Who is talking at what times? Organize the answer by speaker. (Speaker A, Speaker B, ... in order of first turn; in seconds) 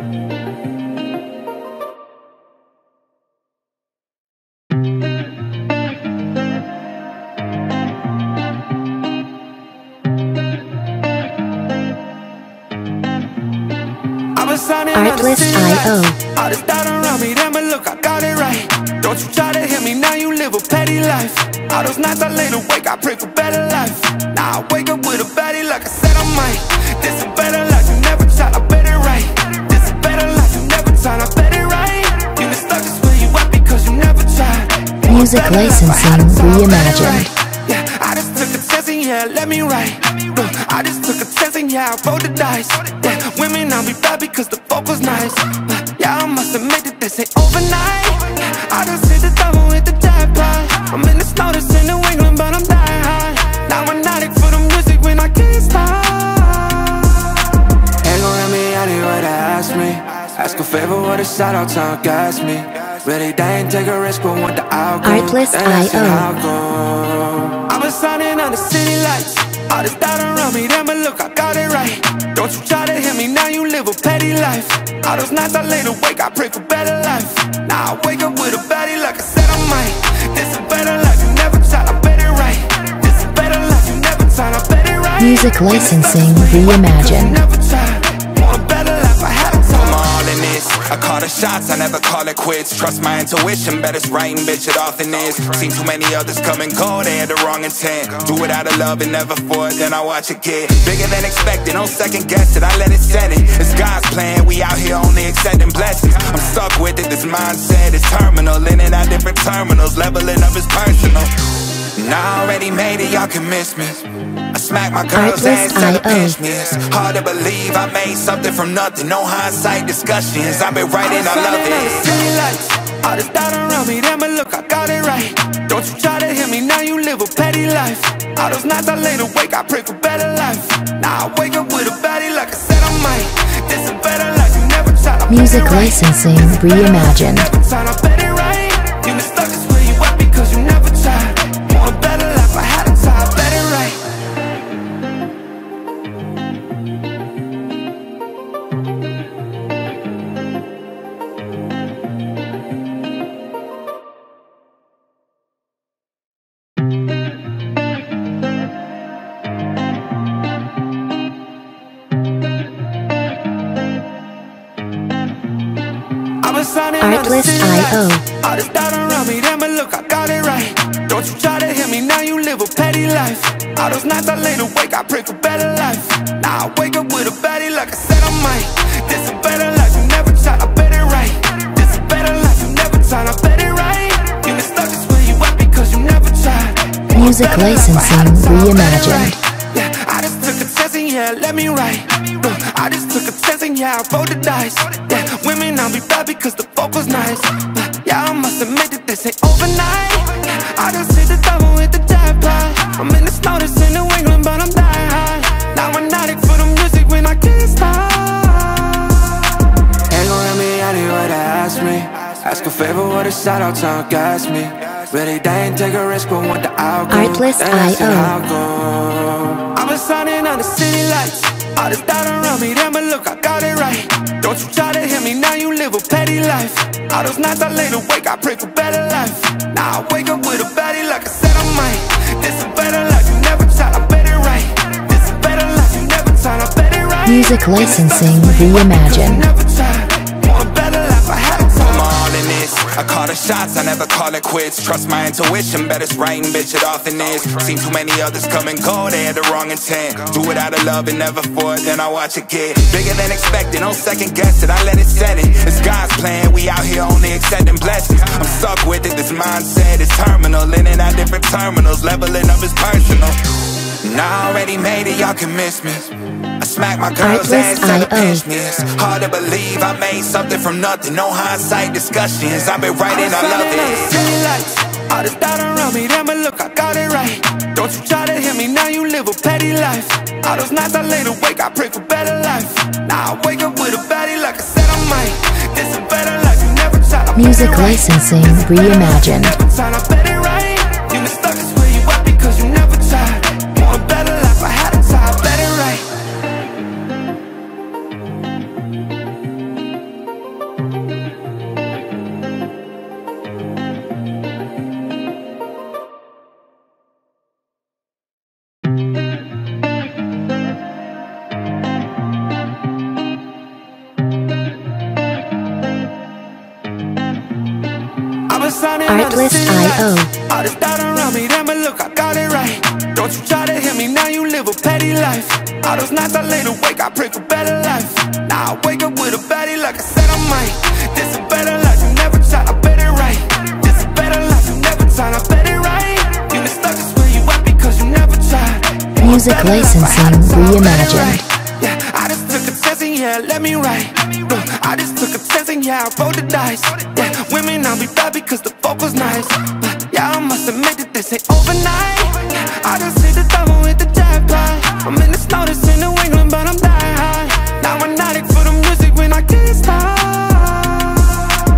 Speaker A: 14.4-57.1, 58.0-85.4, 87.1-89.8, 121.1-135.9, 137.5-144.0, 166.4-209.2, 210.1-237.3, 238.9-241.8, 273.4-287.4, 289.6-296.1, 318.5-361.4
Speaker B: 14.9-16.2, 35.1-37.3, 65.0-66.3, 85.2-87.4, 115.2-116.3, 135.3-137.5, 167.0-168.2, 187.1-189.4, 217.1-218.3, 237.2-239.5, 267.2-268.4, 287.4-289.6, 319.1-320.3, 339.2-341.4
Speaker C: 89.7-122.1, 241.8-274.2